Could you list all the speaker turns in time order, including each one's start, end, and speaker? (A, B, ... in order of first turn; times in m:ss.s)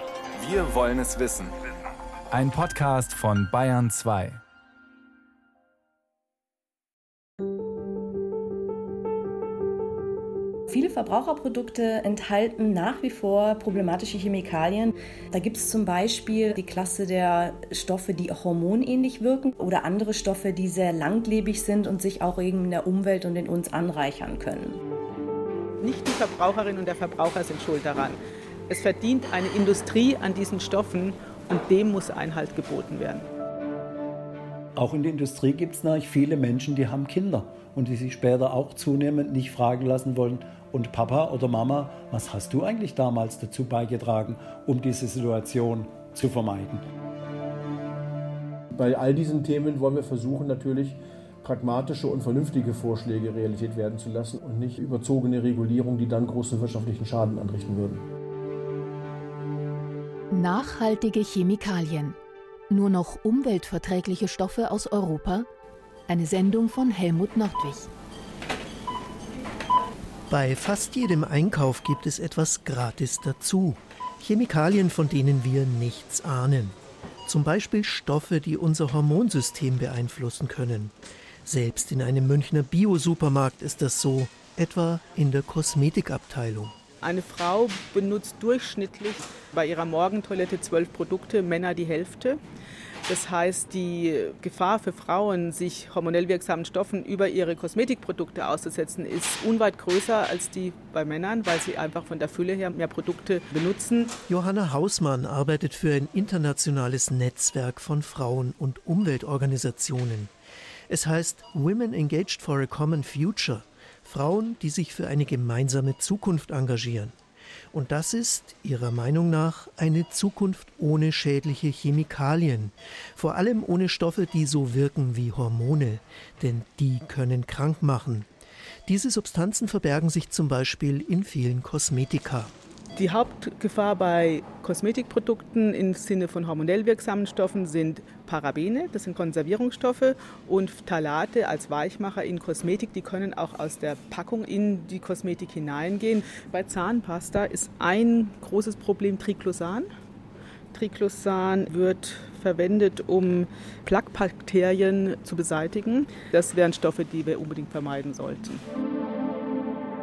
0:00.3-0:01.7 A
0:02.3-0:04.4 A
0:10.7-0:24.8 B
0:25.8-0:33.3 C
0:34.8-0:46.8 D
0:48.7-0:58.0 E
1:00.3-1:02.2 F
1:02.7-1:05.5 F
1:06.1-1:07.9 F
1:10.3-1:20.9 G
1:21.4-1:26.8 G
1:27.0-1:32.4 C
1:33.1-1:44.1 C
1:44.3-1:50.3 G
1:50.9-1:57.1 G
1:57.7-2:08.3 G
2:08.9-2:12.5 G
2:13.0-2:29.9 C
2:30.7-2:38.6 C